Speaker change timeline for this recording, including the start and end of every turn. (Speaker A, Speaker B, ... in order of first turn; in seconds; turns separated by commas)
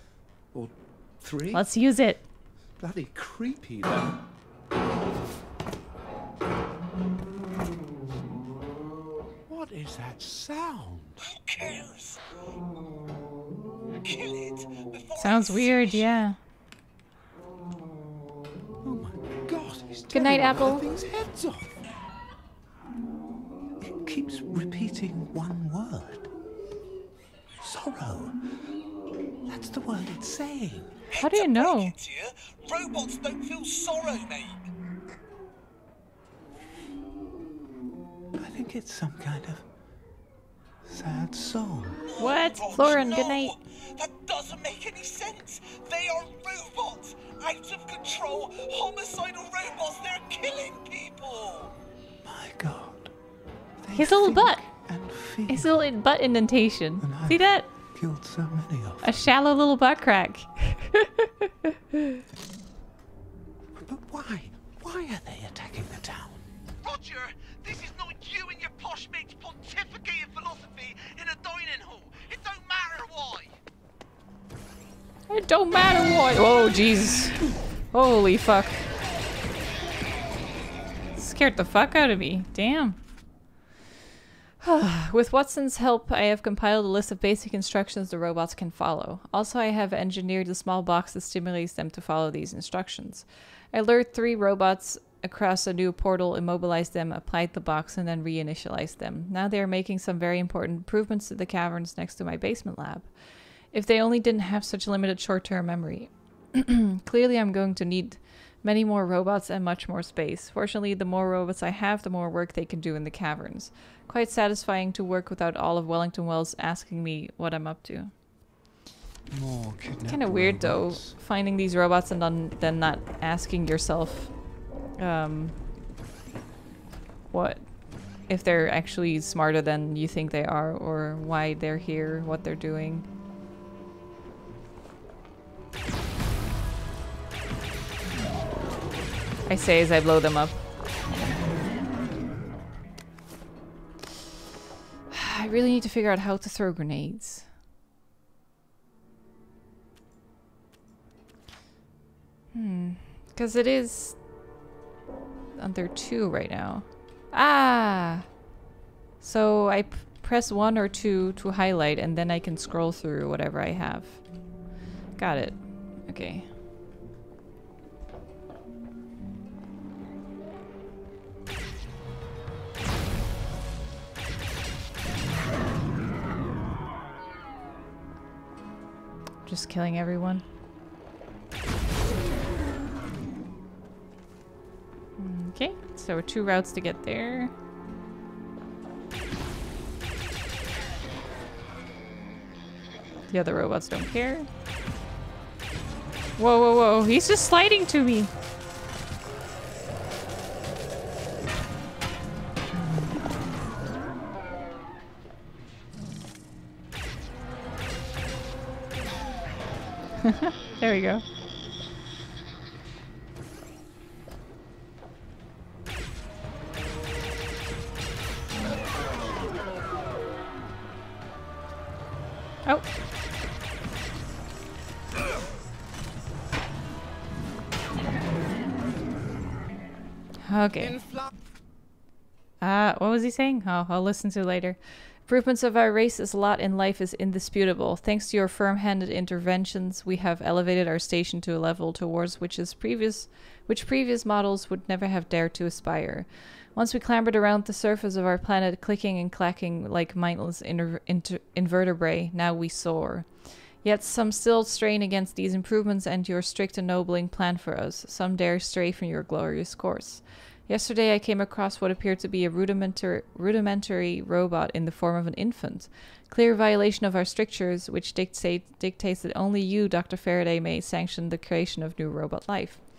Speaker A: 0.5-1.7, Speaker B: 1.5-2.2, Speaker A: 2.8-4.2, Speaker A: 9.5-11.2, Speaker C: 11.2-12.2, Speaker C: 14.0-16.1, Speaker B: 15.2-16.4, Speaker A: 18.8-21.8, Speaker B: 20.1-20.9, Speaker A: 23.8-26.3, Speaker A: 27.6-28.4, Speaker A: 29.4-31.0, Speaker C: 31.1-34.6, Speaker B: 31.2-32.0, Speaker A: 38.4-39.6, Speaker A: 40.8-42.0, Speaker C: 42.1-51.7, Speaker B: 42.2-43.6, Speaker A: 52.2-53.1, Speaker A: 53.8-55.7, Speaker B: 53.9-54.6, Speaker B: 55.5-57.7, Speaker A: 57.0-59.2, Speaker B: 59.0-62.2, Speaker A: 63.7-66.5, Speaker C: 66.8-73.5, Speaker B: 75.3-78.8, Speaker B: 81.2-83.0, Speaker B: 84.6-103.1, Speaker B: 103.7-118.1, Speaker A: 119.3-121.2, Speaker B: 120.0-124.3, Speaker B: 125.0-125.5, Speaker B: 127.3-127.6, Speaker B: 128.3-133.1, Speaker B: 139.5-140.6, Speaker B: 145.1-147.5, Speaker B: 152.5-154.2, Speaker B: 155.6-158.3, Speaker B: 159.2-164.2, Speaker B: 165.2-166.5, Speaker B: 179.4-180.4, Speaker B: 185.2-187.5, Speaker B: 193.3-194.5, Speaker B: 196.4-198.3, Speaker B: 210.2-211.2, Speaker B: 230.4-231.0, Speaker A: 230.8-231.3, Speaker B: 232.6-253.3, Speaker B: 253.8-272.8